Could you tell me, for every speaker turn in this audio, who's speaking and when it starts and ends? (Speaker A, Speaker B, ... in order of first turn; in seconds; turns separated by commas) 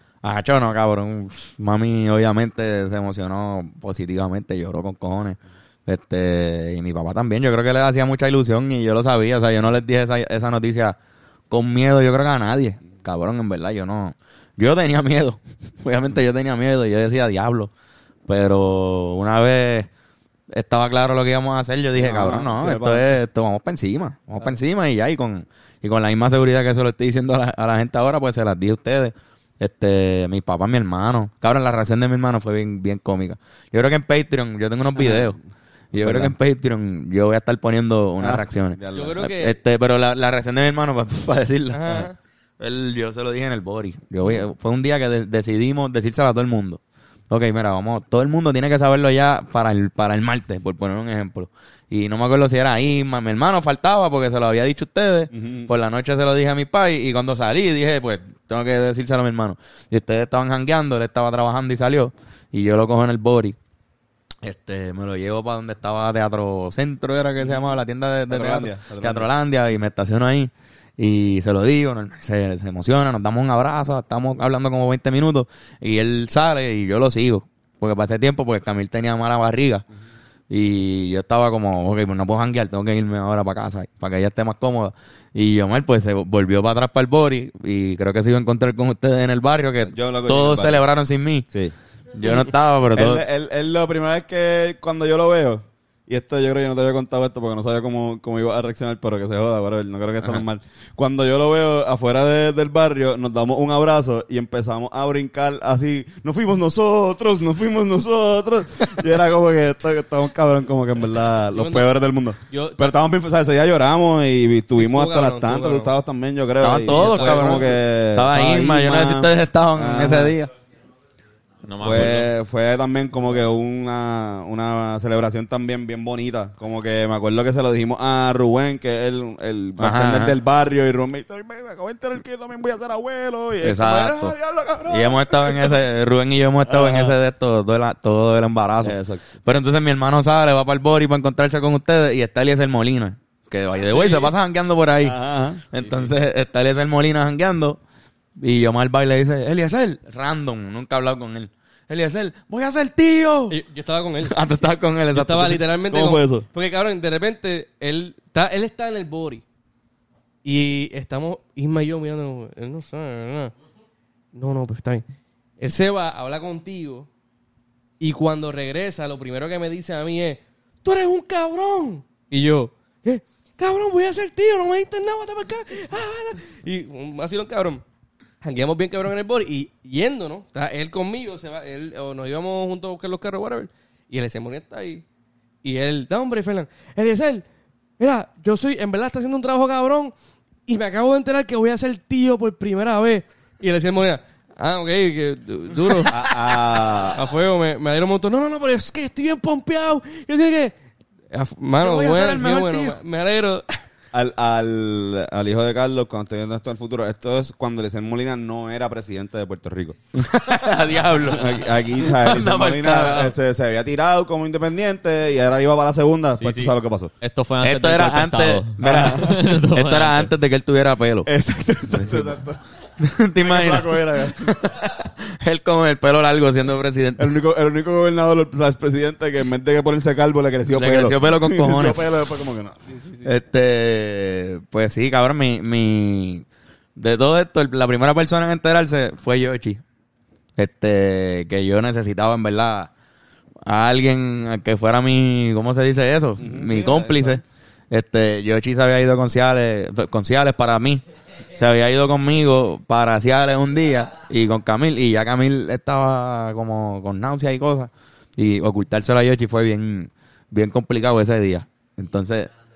Speaker A: 0.2-10.9, Speaker A: 11.5-17.7, Speaker A: 18.3-19.9, Speaker A: 20.5-35.4, Speaker B: 21.9-23.1, Speaker B: 35.0-35.4, Speaker A: 35.9-42.1, Speaker B: 36.0-36.3, Speaker B: 38.2-39.2, Speaker C: 38.9-39.5, Speaker C: 41.7-42.2, Speaker A: 42.6-63.5, Speaker B: 55.3-55.7, Speaker A: 64.4-79.8, Speaker B: 68.3-69.3, Speaker A: 80.5-91.5, Speaker B: 89.8-90.8, Speaker A: 92.1-93.2, Speaker B: 92.9-120.3, Speaker C: 111.5-111.9, Speaker C: 112.5-113.0, Speaker C: 114.7-115.9, Speaker A: 116.6-120.5, Speaker C: 116.8-117.7, Speaker D: 121.6-122.3, Speaker B: 121.8-135.8, Speaker A: 129.8-130.4, Speaker A: 133.6-134.4, Speaker A: 134.9-145.2, Speaker B: 136.7-137.1, Speaker B: 138.8-139.3, Speaker C: 143.9-144.3, Speaker B: 145.0-146.1, Speaker A: 145.7-147.8, Speaker A: 148.4-153.6, Speaker C: 153.5-154.3, Speaker A: 154.2-155.6, Speaker C: 155.1-159.4, Speaker B: 155.9-156.4, Speaker C: 160.4-163.5, Speaker C: 164.3-165.0, Speaker C: 165.6-167.1, Speaker C: 168.0-177.8, Speaker C: 178.4-185.0, Speaker C: 185.6-187.4, Speaker C: 188.0-190.1, Speaker C: 190.7-196.3, Speaker B: 196.1-197.2, Speaker C: 197.1-200.7, Speaker C: 201.3-203.7, Speaker A: 201.8-203.0, Speaker B: 204.1-210.0, Speaker A: 210.1-213.3, Speaker B: 211.2-217.1, Speaker D: 216.4-220.3, Speaker A: 217.6-221.3, Speaker B: 218.8-219.4, Speaker B: 221.2-222.6, Speaker A: 221.9-222.3, Speaker A: 223.0-227.3, Speaker B: 223.4-224.6, Speaker B: 227.2-232.8, Speaker A: 230.7-232.1, Speaker C: 232.9-233.3, Speaker A: 233.2-236.4, Speaker A: 236.9-239.8, Speaker A: 240.6-242.9, Speaker A: 243.6-251.0, Speaker B: 246.4-247.4, Speaker A: 251.5-262.5